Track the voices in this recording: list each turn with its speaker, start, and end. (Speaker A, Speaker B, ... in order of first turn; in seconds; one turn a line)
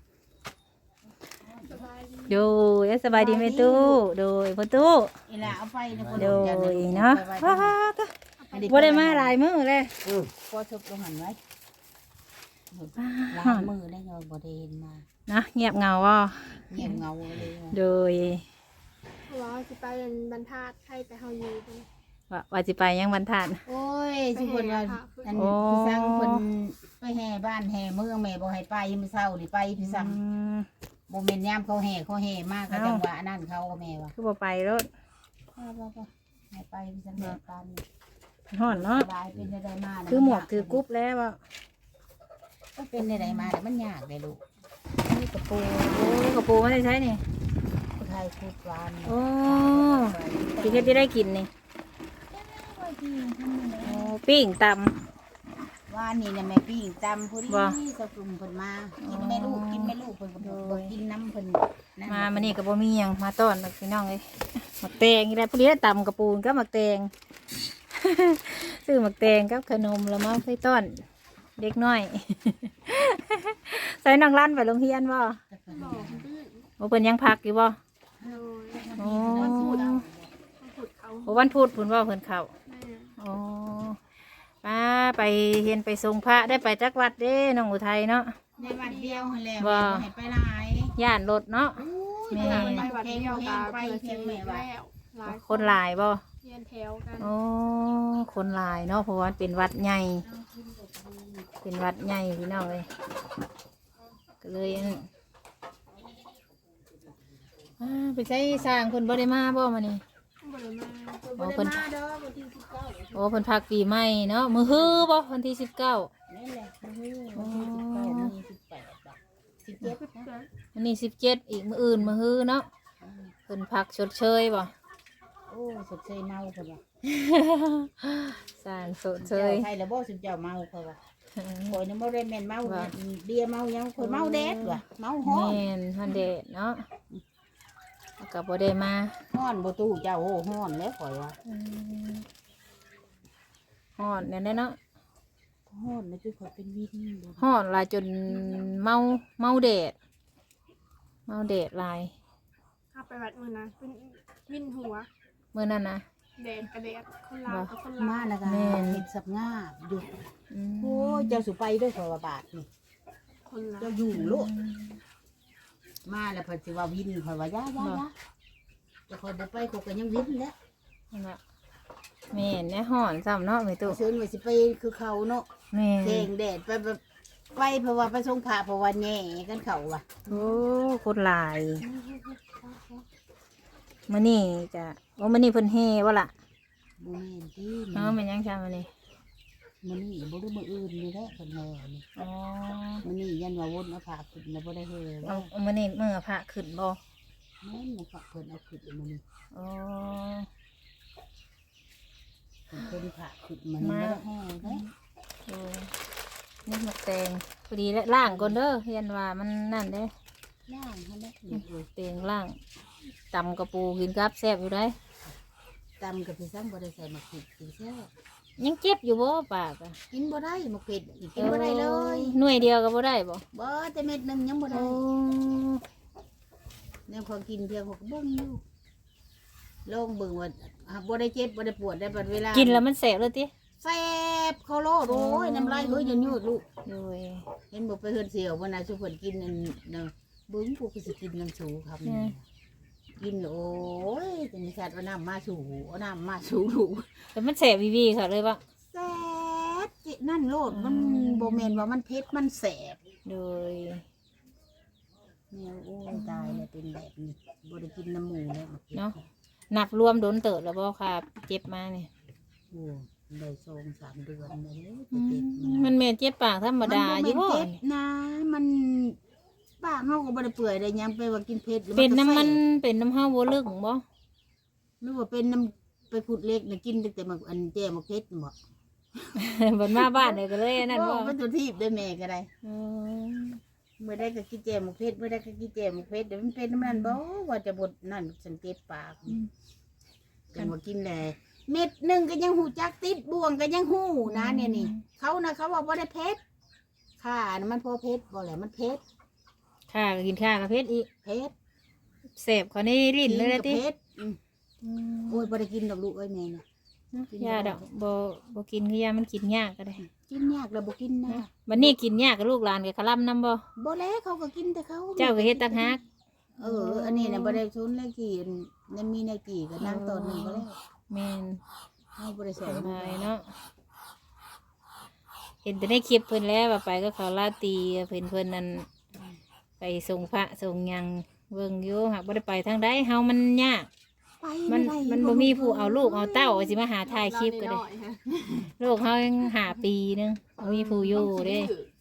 Speaker A: 1.6-2.5
Speaker B: 2.3-5.1
Speaker C: 3.1-4.0
Speaker C: 5.3-7.8
Speaker B: 6.1-8.1
Speaker A: 8.4-8.8
Speaker C: 8.5-9.4
Speaker B: 8.7-10.0
Speaker C: 10.4-11.4
Speaker C: 12.7-15.1
Speaker B: 13.0-13.7
Speaker B: 15.3-17.0
Speaker C: 16.7-17.8
Speaker B: 17.7-18.5
Speaker A: 19.3-21.9
Speaker B: 22.3-23.6
Speaker C: 23.7-30.2
Speaker A: 24.3-25.5
Speaker B: 25.3-26.4
Speaker B: 29.8-30.7
Speaker C: 31.1-34.1
Speaker B: 32.7-33.0
Speaker B: 34.1-34.9
Speaker C: 35.6-37.8
Speaker B: 38.5-39.1
Speaker C: 38.7-40.8
Speaker B: 40.1-41.4
Speaker C: 42.8-44.4
Speaker B: 43.0-43.5
Speaker B: 45.1-47.2
Speaker C: 45.7-46.1
Speaker C: 48.0-51.1
Speaker B: 49.0-51.5
Speaker C: 52.3-54.2
Speaker B: 53.8-55.0
Speaker C: 55.9-62.6
Speaker B: 57.5-57.8
Speaker B: 59.0-61.0
Speaker B: 62.1-67.1
Speaker B: 67.9-71.0
Speaker B: 71.6-75.4
Speaker C: 75.5-76.3
Speaker A: 75.7-76.7
Speaker B: 76.8-77.8
Speaker C: 78.2-80.3
Speaker A: 78.2-80.0
Speaker B: 79.0-80.1
Speaker A: 80.6-81.5
Speaker B: 81.3-82.5
Speaker A: 82.7-83.2
Speaker B: 83.2-84.0
Speaker B: 84.6-88.4
Speaker A: 88.6-89.4
Speaker C: 88.6-91.0
Speaker B: 89.6-90.1
Speaker B: 91.0-92.9
Speaker C: 91.8-94.7
Speaker A: 92.3-95.8
Speaker B: 95.2-96.2
Speaker A: 96.4-97.3
Speaker B: 97.2-100.3
Speaker C: 100.3-101.5
Speaker B: 101.6-102.9
Speaker B: 104.4-105.1
Speaker B: 107.8-110.0
Speaker A: 110.4-111.3
Speaker C: 111.2-113.3
Speaker B: 111.4-111.9
Speaker B: 113.1-116.1
Speaker C: 114.6-115.1
Speaker C: 116.3-120.3
Speaker B: 117.4-118.3
Speaker A: 119.8-120.5
Speaker B: 120.8-122.7
Speaker C: 123.0-123.3
Speaker B: 123.5-124.7
Speaker C: 125.5-126.8
Speaker B: 127.0-129.7
Speaker C: 129.2-131.0
Speaker B: 131.4-131.8
Speaker C: 131.7-135.6
Speaker B: 132.7-132.9
Speaker B: 134.0-136.9
Speaker B: 138.2-139.2
Speaker C: 139.3-141.4
Speaker B: 141.4-142.3
Speaker B: 144.0-144.8
Speaker C: 145.7-147.4
Speaker B: 147.4-149.9
Speaker B: 151.3-152.1
Speaker A: 152.9-155.1
Speaker B: 155.5-156.1
Speaker A: 156.4-158.5
Speaker B: 157.5-157.8
Speaker C: 158.0-160.1
Speaker B: 158.4-159.1
Speaker B: 160.5-161.4
Speaker C: 160.8-162.7
Speaker A: 163.5-164.0
Speaker C: 163.8-164.5
Speaker B: 164.1-165.0
Speaker C: 166.1-168.1
Speaker B: 167.8-168.0
Speaker C: 169.1-170.6
Speaker B: 171.1-171.4
Speaker B: 172.3-174.0
Speaker C: 173.9-175.5
Speaker B: 175.7-176.3
Speaker C: 176.0-177.0
Speaker C: 177.5-180.5
Speaker B: 180.3-181.8
Speaker C: 181.8-183.1
Speaker B: 184.1-186.3
Speaker C: 187.0-188.2
Speaker B: 187.9-188.9
Speaker C: 189.8-192.0
Speaker B: 192.2-193.1
Speaker C: 193.0-195.5
Speaker B: 195.2-197.0
Speaker C: 197.6-199.2
Speaker B: 199.5-200.5
Speaker C: 202.7-204.8
Speaker B: 203.8-204.9
Speaker B: 205.5-205.9
Speaker B: 206.7-210.1
Speaker C: 208.3-208.6
Speaker C: 210.7-211.9
Speaker B: 211.5-212.6
Speaker B: 213.3-215.0
Speaker C: 216.0-218.1
Speaker B: 218.6-220.0
Speaker C: 220.1-222.4
Speaker B: 221.4-223.4
Speaker C: 223.5-225.0
Speaker B: 224.7-225.8
Speaker C: 227.1-228.6
Speaker C: 229.8-232.8
Speaker B: 232.5-233.5
Speaker C: 233.8-236.7
Speaker B: 235.1-237.5
Speaker C: 237.7-242.4
Speaker B: 242.1-242.3
Speaker C: 243.2-247.3
Speaker B: 247.3-248.6
Speaker C: 248.9-253.0
Speaker B: 250.7-251.8
Speaker B: 253.3-254.1
Speaker C: 255.5-259.1
Speaker B: 256.1-256.7
Speaker B: 259.7-262.1
Speaker C: 262.7-265.9
Speaker B: 265.1-267.8
Speaker C: 266.8-269.2
Speaker C: 269.8-272.6
Speaker B: 271.9-274.0
Speaker C: 275.0-278.6
Speaker B: 279.4-281.4
Speaker C: 279.9-282.5
Speaker B: 282.6-283.6
Speaker C: 284.0-289.4
Speaker B: 286.8-287.2
Speaker C: 290.5-296.4
Speaker B: 294.3-295.0
Speaker C: 297.2-299.0
Speaker B: 299.9-301.1
Speaker C: 301.2-301.5
Speaker B: 302.4-303.8
Speaker C: 303.2-304.4
Speaker B: 304.8-305.5
Speaker C: 305.3-306.6
Speaker B: 307.1-310.0
Speaker C: 307.3-307.8
Speaker C: 310.0-311.9
Speaker B: 311.3-313.6
Speaker C: 313.8-316.0
Speaker B: 315.2-316.0
Speaker C: 316.6-320.8
Speaker B: 316.6-317.6
Speaker B: 319.8-321.6
Speaker C: 322.2-323.3
Speaker B: 322.7-323.6
Speaker B: 325.6-328.9
Speaker B: 329.8-333.9
Speaker C: 334.4-336.8
Speaker B: 334.7-337.9
Speaker A: 337.0-338.2
Speaker C: 338.3-338.7
Speaker B: 338.8-341.8
Speaker A: 340.7-341.9